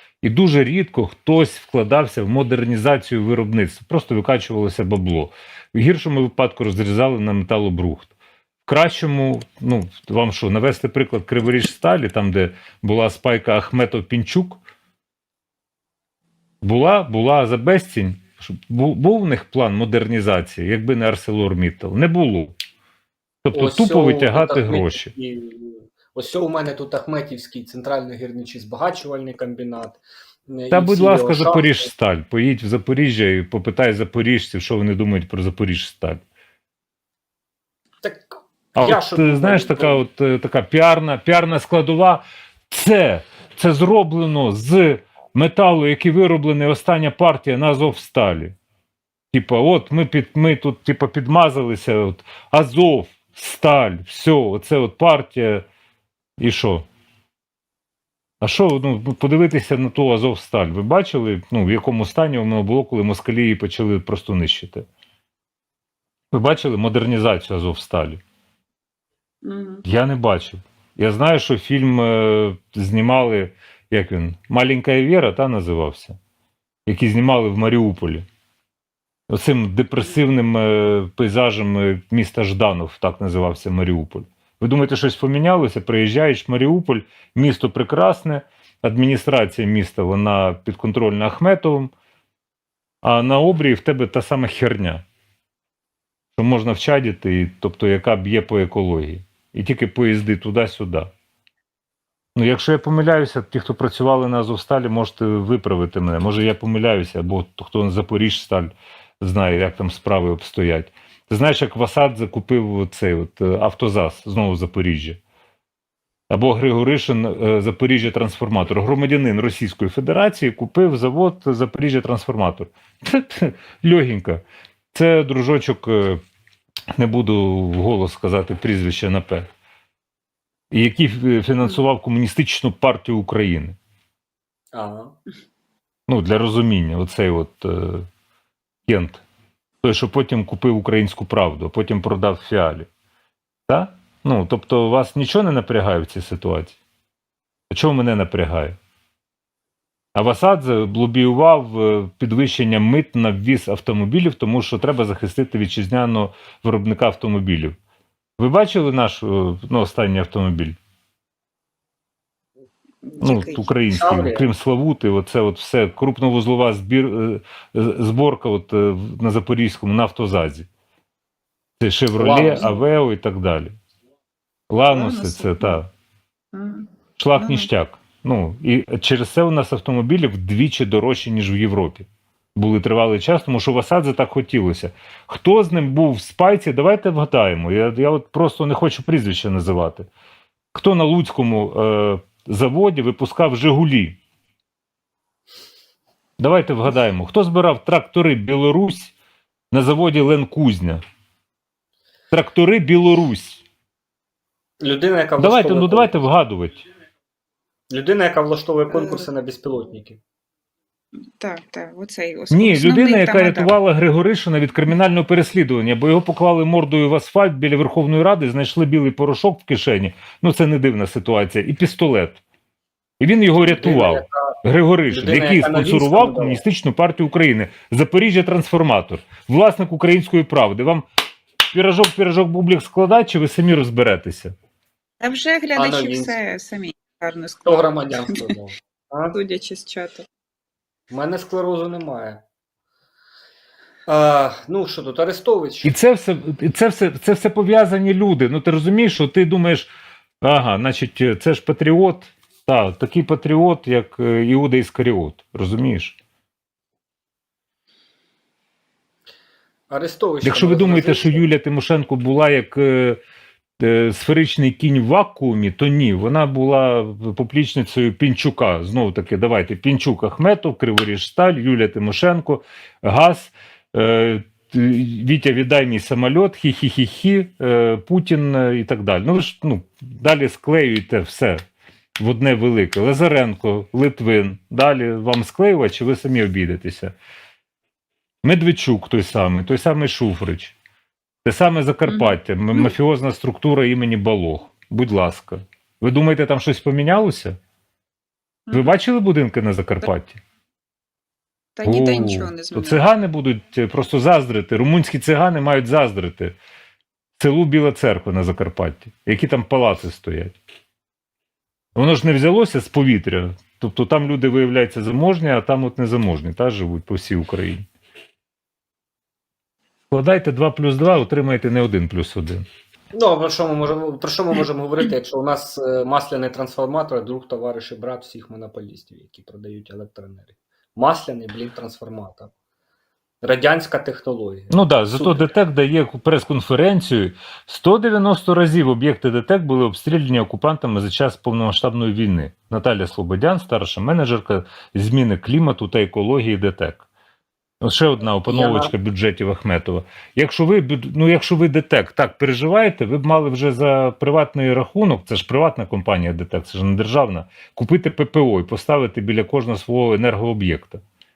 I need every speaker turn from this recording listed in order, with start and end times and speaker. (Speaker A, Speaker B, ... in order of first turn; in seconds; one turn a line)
Speaker A: 0.2-8.1
Speaker A: 8.7-14.6
Speaker A: 16.6-22.6
Speaker A: 23.4-25.1
Speaker B: 23.5-31.9
Speaker A: 30.7-36.2
Speaker B: 38.0-40.0
Speaker A: 38.8-48.5
Speaker A: 49.3-55.6
Speaker A: 56.4-56.9
Speaker A: 58.4-64.9
Speaker A: 66.3-68.2
Speaker C: 69.4-69.8
Speaker A: 69.8-76.2
Speaker A: 76.9-78.2
Speaker A: 79.3-91.9
Speaker A: 93.0-95.0
Speaker A: 96.4-101.1
Speaker A: 102.4-115.2
Speaker A: 116.3-124.4
Speaker A: 124.9-126.2
Speaker A: 127.0-129.5
Speaker A: 130.7-133.8
Speaker B: 134.7-135.1
Speaker A: 136.1-138.1
Speaker A: 138.9-139.2
Speaker A: 139.8-142.9
Speaker A: 143.7-146.8
Speaker A: 147.7-148.8
Speaker A: 150.2-157.8
Speaker A: 158.4-160.8
Speaker C: 163.0-163.7
Speaker A: 163.2-170.7
Speaker B: 163.9-164.5
Speaker A: 171.8-173.7
Speaker B: 172.2-172.7
Speaker A: 174.7-175.9
Speaker C: 174.9-175.8
Speaker C: 176.5-177.7
Speaker A: 177.2-190.1
Speaker A: 190.7-194.2
Speaker A: 196.4-199.1
Speaker A: 199.7-201.0
Speaker A: 202.3-203.6
Speaker B: 204.8-206.2
Speaker A: 205.4-206.8
Speaker B: 207.9-210.2
Speaker C: 208.9-209.3
Speaker C: 211.3-213.8
Speaker A: 212.5-222.4
Speaker A: 223.2-231.1
Speaker B: 223.7-224.6
Speaker B: 225.1-226.6
Speaker A: 231.7-234.6
Speaker C: 235.2-238.6
Speaker B: 235.8-236.4
Speaker B: 237.7-239.4
Speaker C: 239.3-240.2
Speaker B: 241.1-242.4
Speaker B: 244.1-245.9
Speaker A: 245.8-249.9
Speaker A: 250.4-256.2
Speaker B: 259.9-261.4
Speaker A: 260.4-263.2
Speaker A: 263.8-281.6
Speaker A: 282.2-287.1
Speaker A: 288.4-290.8
Speaker A: 291.4-297.6
Speaker C: 292.1-292.9
Speaker C: 298.7-298.9
Speaker A: 298.7-300.4
Speaker C: 301.8-303.0
Speaker A: 301.8-306.6
Speaker A: 307.4-310.6
Speaker A: 311.9-317.9
Speaker A: 320.1-322.6
Speaker B: 323.1-332.5
Speaker B: 333.4-335.5
Speaker A: 334.7-347.1
Speaker A: 347.8-361.0
Speaker B: 348.4-348.9